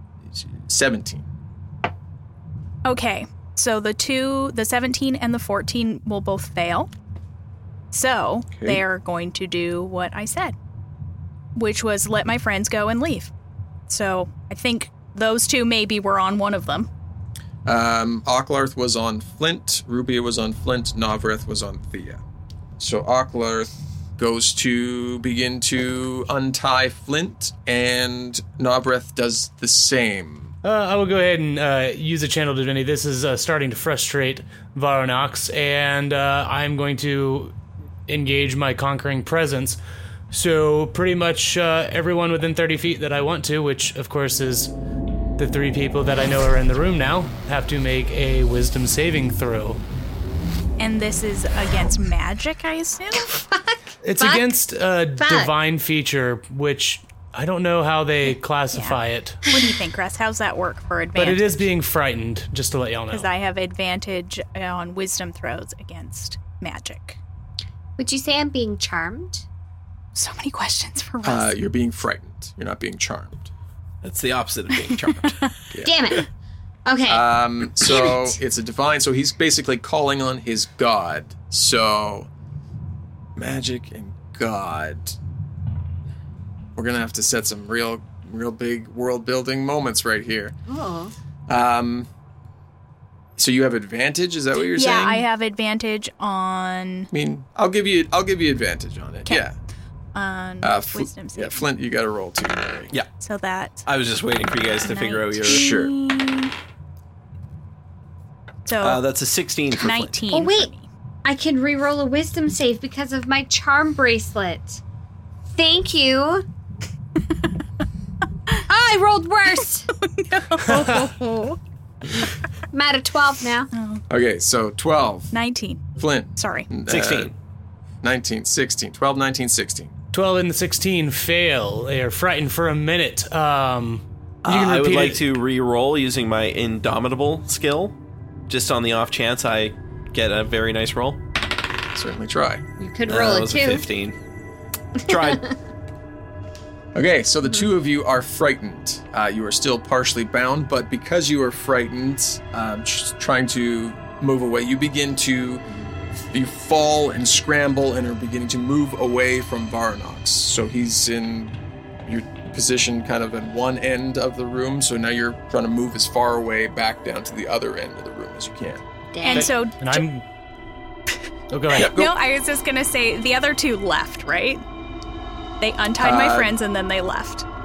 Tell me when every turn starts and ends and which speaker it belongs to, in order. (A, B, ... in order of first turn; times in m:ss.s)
0:00.3-0:01.2 A
0:02.8-0:06.9 B
0:07.9-0:10.5 B
0:08.6-0:08.8 A
0:11.5-0:13.3 B
0:13.9-0:16.9 B
0:17.6-0:22.2 A
0:22.8-0:30.5 A
0:30.6-0:37.5 C
0:38.1-0:39.8 C
0:40.3-0:44.7 C
0:45.4-0:49.8 C
0:50.8-0:53.3 B
0:53.2-0:54.5 D
0:54.0-0:59.4 C
0:55.2-0:55.5 D
0:58.7-1:01.7 B
1:01.2-1:03.3 C
1:03.1-1:07.2 B
1:08.0-1:09.4 D
1:10.1-1:11.6 B
1:11.2-1:13.5 A
1:14.0-1:15.4 E
1:15.7-1:16.0 A
1:15.8-1:16.2 D
1:16.8-1:17.2 D
1:17.1-1:22.3 A
1:23.4-1:25.2 A
1:26.8-1:30.6 A
1:30.7-1:31.1 D
1:31.5-1:32.1 A
1:33.4-1:35.2 A
1:34.7-1:37.1 B
1:37.1-1:39.5 A
1:40.1-1:41.6 B
1:40.6-1:42.9 A
1:43.2-1:43.9 B
1:43.8-1:45.8 E
1:44.8-1:46.5 B
1:45.4-1:45.9 A
1:48.6-1:49.0 B
1:48.8-1:50.2 E
1:49.8-1:50.9 B
1:50.3-1:50.7 D
1:51.2-1:54.8 D
1:55.5-1:56.4 D
1:58.7-1:59.9 D
2:00.0-2:01.6 B
2:00.7-2:01.0 C
2:02.7-2:03.7 D
2:03.7-2:04.0 B
2:04.1-2:05.3 A
2:05.3-2:06.7 B
2:06.0-2:07.3 A
2:06.9-2:07.3 E
2:08.0-2:09.9 A
2:10.1-2:15.2 C
2:14.4-2:17.9 E
2:18.5-2:21.2 E
2:21.9-2:22.6 A
2:22.8-2:23.8 D
2:23.1-2:24.2 E
2:25.0-2:25.5 E
2:25.1-2:25.4 D
2:26.9-2:35.6 A
2:36.3-2:49.5 A
2:49.1-2:49.5 D
2:49.2-2:50.0 B
2:49.8-2:50.2 C
2:51.5-2:51.9 C
2:51.7-2:54.6 B
2:51.7-2:52.1 A
2:55.6-2:57.4 B
2:56.0-2:56.5 A